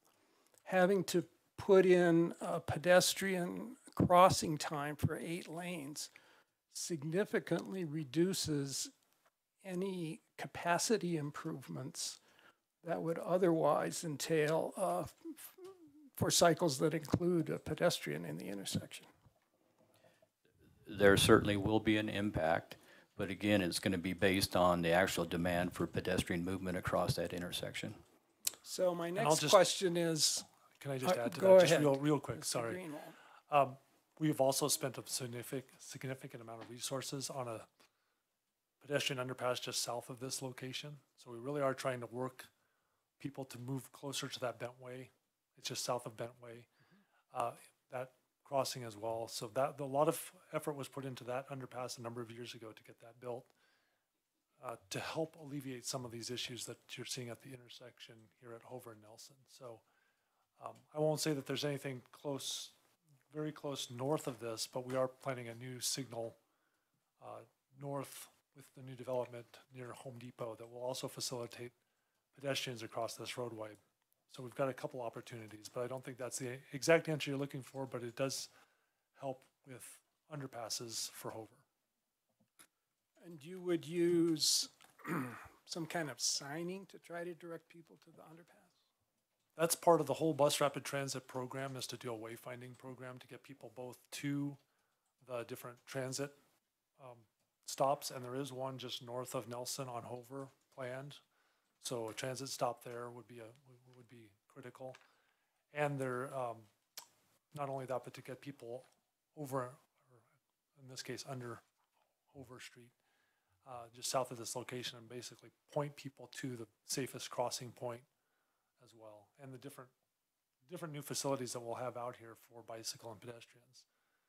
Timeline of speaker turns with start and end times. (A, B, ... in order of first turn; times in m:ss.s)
0:00.6-0:06.1 A
0:06.7-0:08.9 A
0:09.6-0:12.2 A
0:12.8-0:19.1 A
0:20.9-0:28.0 B
0:28.6-0:30.5 A
0:29.2-0:29.7 C
0:30.8-0:32.8 C
0:31.0-0:33.2 A
0:33.5-0:37.7 C
0:38.8-0:42.5 C
0:43.2-0:46.7 C
0:47.3-0:53.5 C
0:54.6-0:59.8 C
1:00.6-1:02.7 C
1:03.3-1:06.4 C
1:07.2-1:11.7 C
1:12.4-1:13.8 C
1:14.3-1:18.5 C
1:19.2-1:21.6 C
1:23.2-1:28.7 A
1:29.6-1:34.6 C
1:35.2-1:36.4 C
1:37.0-1:41.2 C
1:41.8-1:45.0 C
1:45.7-1:46.7 C
1:47.5-1:49.9 C
1:50.8-1:51.6 C
1:52.3-1:52.9 C
1:53.7-1:58.1 C
1:58.8-1:59.9 C
2:00.7-2:03.9 C